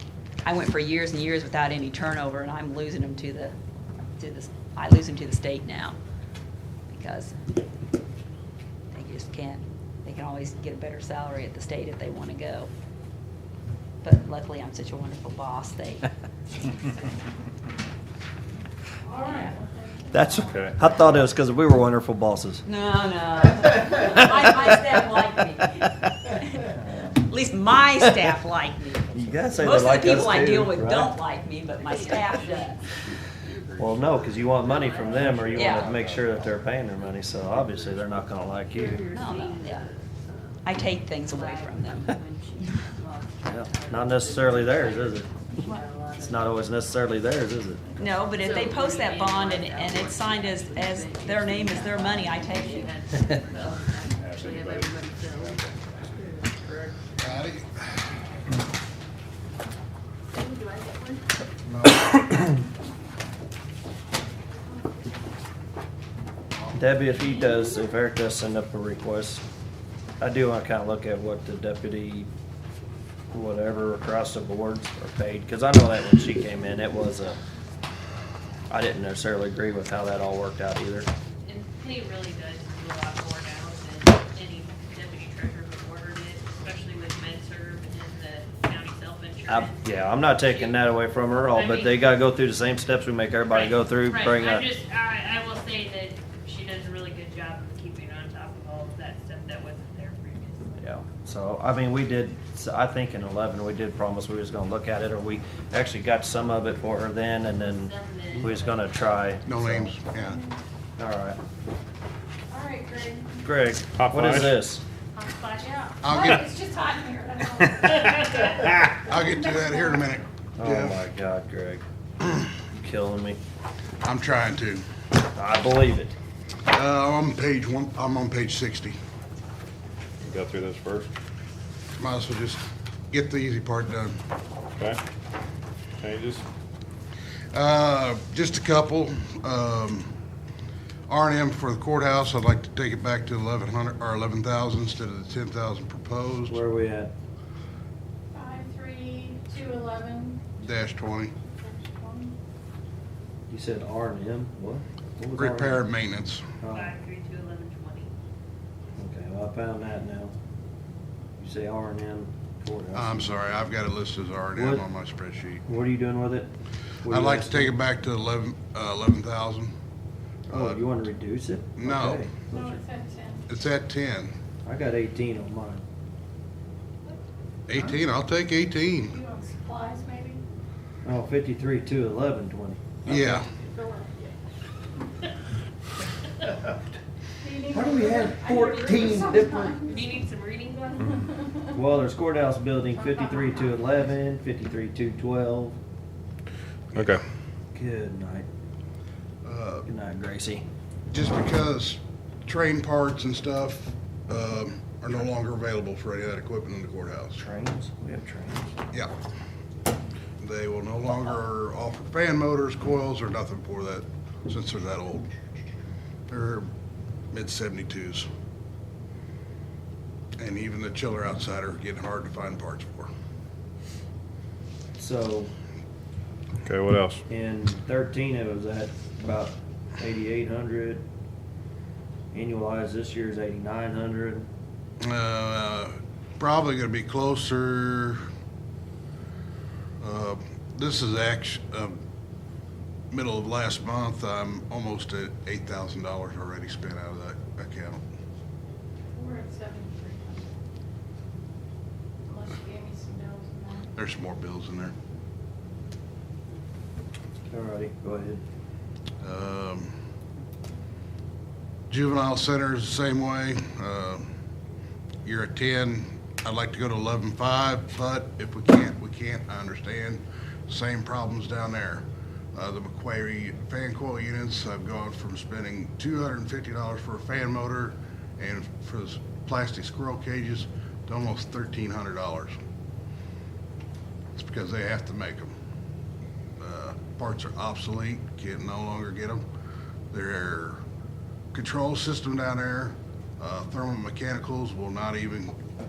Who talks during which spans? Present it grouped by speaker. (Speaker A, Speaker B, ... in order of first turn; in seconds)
Speaker A: 0.4-3.5, 4.2-6.0, 6.9-7.3, 8.9-12.7, 14.0-16.1, 19.2-19.5, 22.7-32.8, 35.5-35.9, 39.1-39.8, 40.6-42.1, 48.0-52.9
Speaker B: 19.0-20.7, 110.2-110.5, 112.5-113.4, 115.6-120.1, 148.3-150.5, 151.5-152.3, 172.5-173.5, 179.1-180.4, 183.5-184.4, 187.4-190.0, 191.2-191.5, 192.9-193.8, 249.1-250.5, 252.2-253.9
Speaker C: 20.1-22.6, 29.1-31.1, 33.8-39.0, 43.5-45.3, 46.2-47.9, 66.7-69.4, 70.2-72.3, 73.3-77.4, 78.7-81.1, 89.5-94.7, 100.8-109.9, 111.0-111.4, 113.4-114.8, 120.6-121.8, 122.7-123.4, 125.3-126.2, 146.5-147.1, 153.5-155.8, 156.6-156.9, 158.9-160.3, 161.4-163.4, 164.5-164.8, 165.7-166.5, 167.0-167.8, 170.5-172.8, 174.7-175.8, 181.0-183.4, 187.7-189.8, 191.7-195.8, 197.7-198.5, 199.8-200.7, 207.4-208.8, 225.0-225.5, 227.3-231.0, 232.3-234.5, 257.5-258.4
Speaker D: 20.4-21.1, 32.6-34.2, 35.3-36.5, 54.1-56.1, 113.9-114.6, 130.2-131.1, 136.0-136.4, 196.9-197.2, 226.6-227.2
Speaker E: 31.8-32.9, 34.4-36.0, 38.7-46.7, 47.8-56.4, 60.3-61.2, 81.4-90.9, 91.4-92.1, 93.5-100.8, 107.5-109.2, 115.1-115.8, 118.0-118.9, 156.7-158.1, 189.8-191.2
Speaker F: 57.2-58.0, 61.7-62.2, 109.5-110.4, 116.0-116.5, 119.1-121.0, 124.0-124.8, 126.7-129.0, 132.0-134.2, 137.5-140.1, 141.1-146.6, 150.6-151.3, 155.3-156.4, 162.9-165.6, 167.1-169.7, 170.5-170.8, 171.8-172.3, 173.5-174.3, 177.7-179.2, 183.0-183.5, 199.4-199.8, 201.1-207.4, 210.4-215.3, 216.3-216.7, 217.3-218.3, 220.4-223.1, 235.0-238.2, 240.0-242.0, 243.1-248.0, 253.9-254.9, 259.2-259.9, 261.9-264.2, 265.2-282.6, 284.3-285.5, 286.6-289.4, 290.1-290.8, 291.5-295.6